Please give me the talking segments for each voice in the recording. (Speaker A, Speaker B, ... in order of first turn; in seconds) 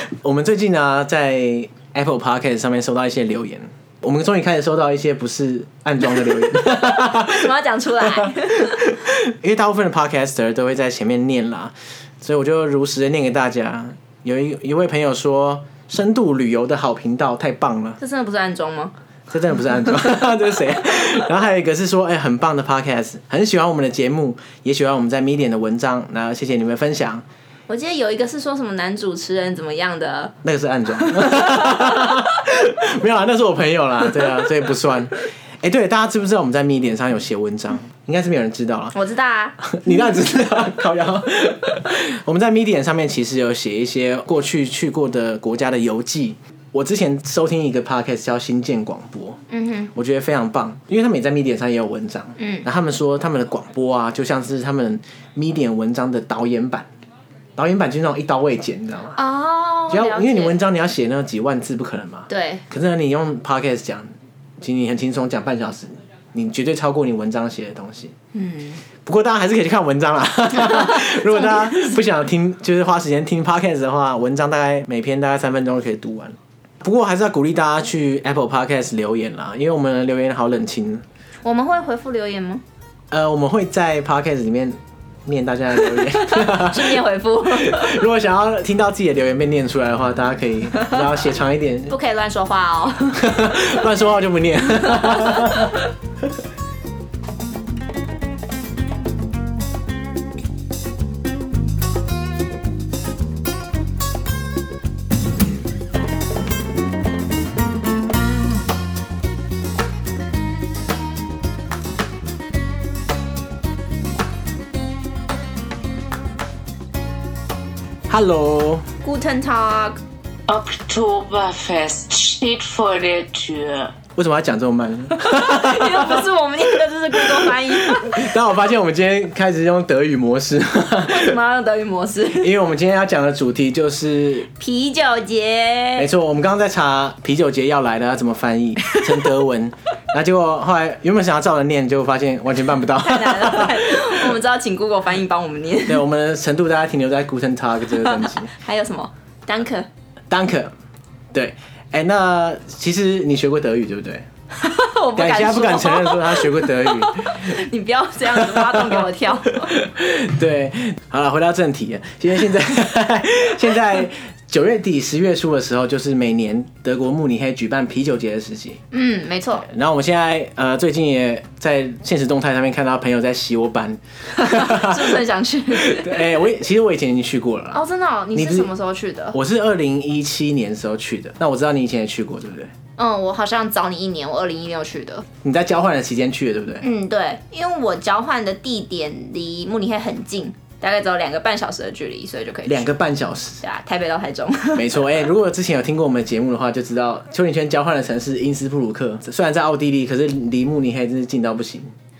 Speaker A: 0.2-7.5, 8.1-18.0, 19.3-27.2, 30.4-39.0, 39.6-49.4, 49.9-56.9, 57.6-59.2, 59.9-68.1, 69.0-81.0, 83.1-92.0, 93.2-95.8, 118.1-118.9, 124.1-126.2, 127.2-131.3, 132.4-134.5, 136.0-144.2, 145.8-148.5, 150.3-150.7, 151.3-154.2, 155.2-157.5, 158.3-159.0, 159.7-168.8, 169.6-175.2, 175.7-177.8, 178.3-178.7, 179.3-182.7, 185.4-186.9, 192.7-193.6, 194.7-201.9
Speaker B: 6.1-8.9, 18.0-18.9, 27.7-30.4, 30.9-32.4, 38.9-40.2, 49.5-49.9, 52.4-52.6, 59.1-60.6, 62.3-62.6, 68.3-68.8, 70.6-71.9, 81.4-82.6, 86.0-88.0, 91.9-93.5, 94.8-95.7, 119.0-120.0, 125.1-128.4, 131.0-132.5, 134.6-136.1, 143.0-146.0, 147.9-149.9, 154.5-159.7, 168.9-169.7, 174.4-176.4, 177.7-179.4, 183.0-185.2, 186.8-192.9, 193.6-195.2
Speaker C: 120.5-124.0